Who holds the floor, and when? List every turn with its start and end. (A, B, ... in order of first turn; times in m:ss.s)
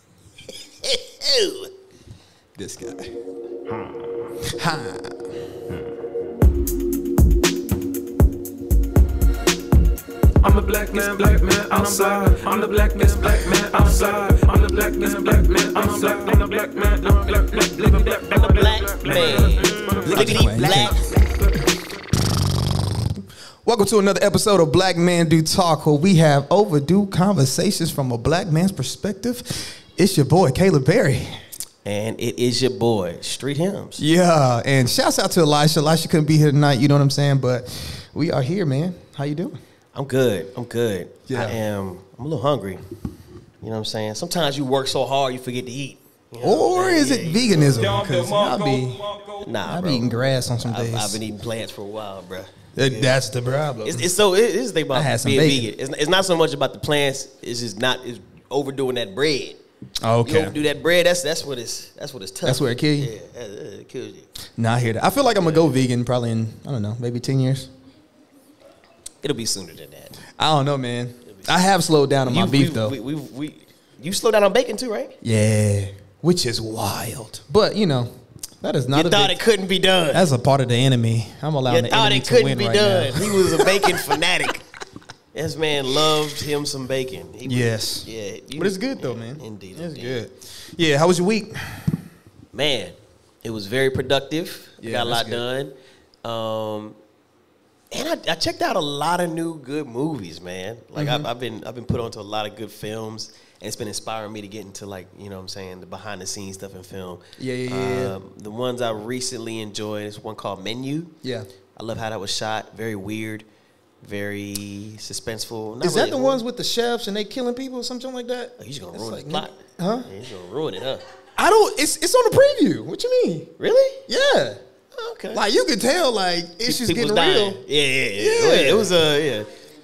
0:00.8-0:01.7 A
0:02.6-0:03.2 B
0:04.4-0:05.4 B
0:10.4-0:20.9 C
0:18.3-0:21.0 A
0:20.0-0:21.2 B
0:23.6-0:31.4 B
0:31.8-0:34.0 A
0:34.0-0:39.6 B
0:39.9-0:42.8 A
0:41.3-0:41.6 B
0:43.6-0:47.8 A
0:46.4-0:49.0 B
0:47.7-0:49.5 C
0:49.4-0:53.2 A
0:49.6-0:51.2 B
0:52.8-0:54.1 B
0:53.8-0:59.6 A
0:54.9-0:55.7 B
1:00.0-1:00.6 B
1:00.2-1:04.3 A
1:02.4-1:03.1 B
1:04.6-1:07.7 B
1:05.3-1:05.7 A
1:09.2-1:10.2 A
1:10.3-1:13.0 B
1:12.3-1:15.2 A
1:15.2-1:19.4 B
1:18.9-1:20.3 A
1:20.1-1:24.0 B
1:21.7-1:24.6 A
1:25.3-1:30.2 A
1:27.4-1:32.0 B
1:32.5-1:37.0 A
1:34.8-1:35.4 B
1:37.9-1:51.1 A
1:41.0-1:41.3 B
1:47.4-1:48.2 B
1:51.2-1:51.5 B
1:51.8-1:53.5 A
1:54.0-1:56.4 A
1:55.8-2:00.1 B
1:58.6-2:01.0 A
2:01.4-2:03.5 B
2:03.6-2:04.0 A
2:04.1-2:04.6 B
2:04.9-2:05.4 A
2:05.3-2:07.6 B
2:06.7-2:09.5 A
2:08.2-2:09.0 B